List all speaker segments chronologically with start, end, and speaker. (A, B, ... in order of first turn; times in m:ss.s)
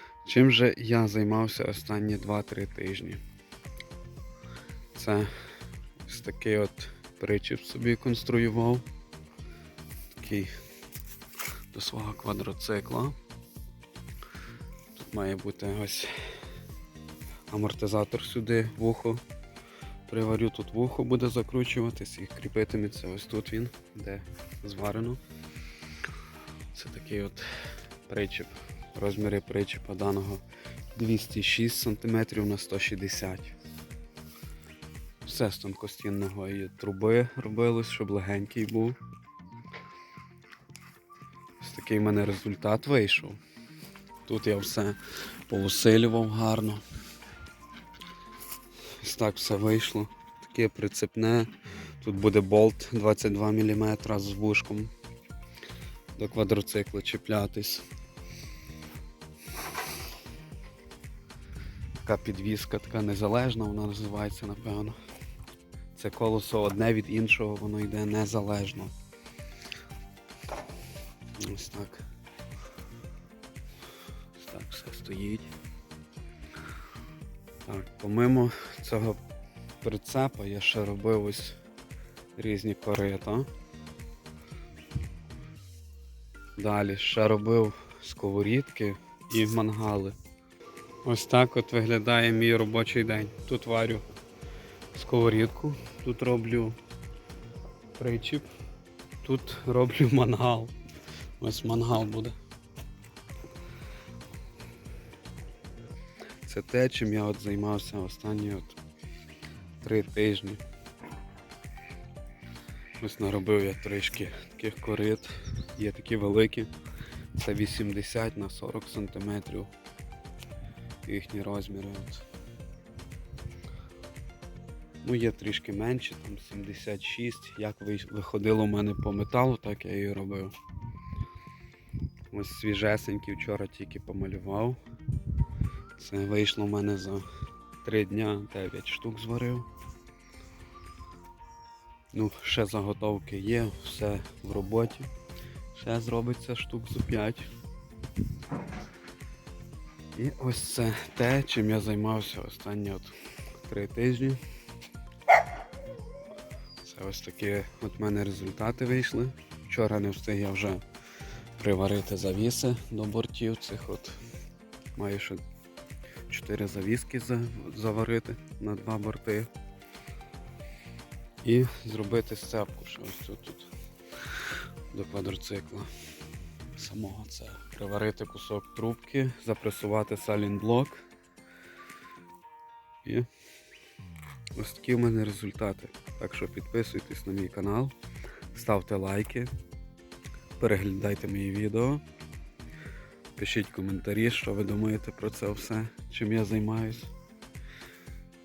0:00.2-0:03.2 A
0:04.9-0:05.3 A
0:06.0-0:08.8 A
0:10.1-0:10.5 A
0:11.7-0:13.2 A
0:14.9-0:16.1 A
0:17.5-0:19.2 A
0:20.1-0:25.2 A
0:26.7-0:27.5 A
0:28.0-0:30.4 A
0:30.9-0:33.5 A
0:35.2-0:39.0 A
0:41.6-0:43.4 A
0:44.2-0:46.8 A
0:49.0-0:54.9 A
0:56.1-0:57.8 A
1:02.0-1:05.0 A
1:05.9-1:08.9 A
1:11.4-1:12.0 A
1:14.3-1:15.5 A
1:17.6-1:19.2 A
1:19.8-1:21.6 A
1:22.4-1:23.5 A
1:26.6-1:30.2 A
1:31.0-1:34.0 A
1:34.9-1:36.8 A
1:38.0-1:38.5 A
1:39.2-1:40.7 A
1:41.4-1:42.4 A
1:46.4-1:48.8 A
1:49.8-1:50.6 A
1:53.0-1:56.7 A
1:57.3-1:59.7 A
2:01.0-2:02.2 A
2:05.0-2:10.5 A
2:12.3-2:14.8 A
2:16.0-2:17.2 A
2:17.8-2:19.7 A
2:22.1-2:25.1 A
2:25.7-2:27.5 A
2:30.1-2:34.4 A
2:36.8-2:40.8 A
2:41.6-2:44.2 A
2:44.9-2:45.4 A
2:46.3-2:49.5 A
2:51.4-2:53.7 A
2:54.9-2:55.9 A
2:56.7-3:01.0 A
3:04.5-3:07.9 A
3:08.5-3:09.5 A
3:10.6-3:12.0 A
3:13.4-3:17.1 A